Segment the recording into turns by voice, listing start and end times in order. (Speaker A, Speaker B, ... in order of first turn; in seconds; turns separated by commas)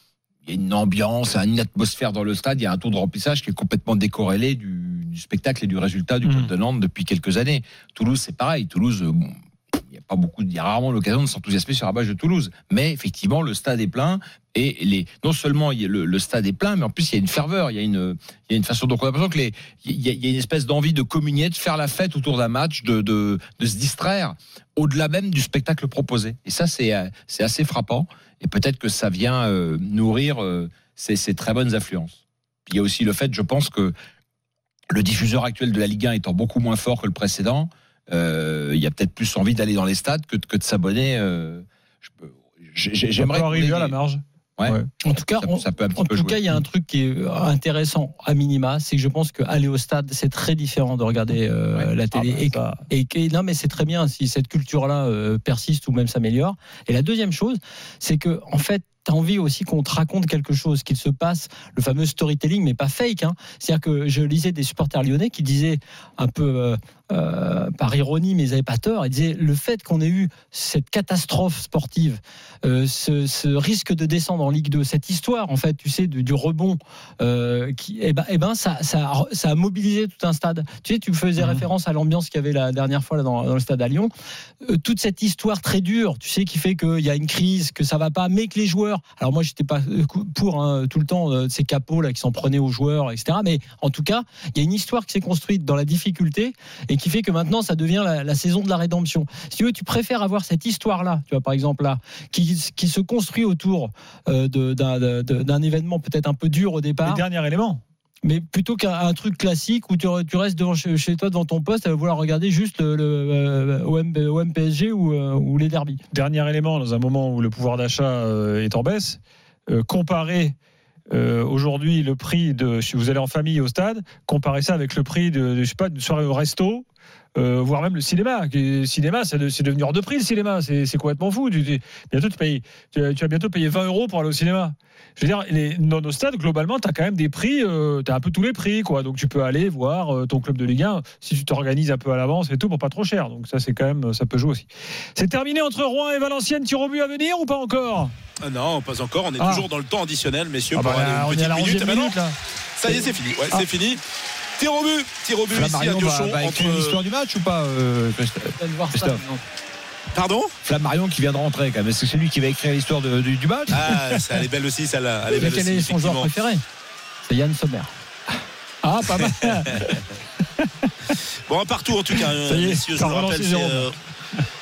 Speaker A: 0.5-33.9, Speaker B: 6.2-6.5, Speaker A: 34.9-43.9, Speaker B: 43.2-44.9, Speaker C: 45.0-84.1, Speaker A: 45.4-46.4, Speaker B: 52.1-52.8, Speaker B: 81.4-81.6, Speaker C: 84.6-107.2, Speaker B: 107.0-107.8, Speaker C: 108.2-116.0, Speaker B: 116.1-120.5, Speaker B: 121.1-148.1, Speaker D: 148.4-152.2, Speaker B: 149.4-149.7, Speaker B: 150.7-153.7, Speaker D: 152.8-154.0, Speaker D: 154.6-157.0, Speaker A: 155.5-159.2, Speaker C: 158.6-159.4, Speaker D: 160.1-160.5, Speaker A: 160.6-164.0, Speaker D: 163.7-166.3, Speaker C: 165.3-166.6, Speaker C: 167.2-167.9, Speaker B: 168.8-170.0, Speaker B: 170.6-171.1, Speaker D: 171.5-173.9, Speaker B: 172.3-174.4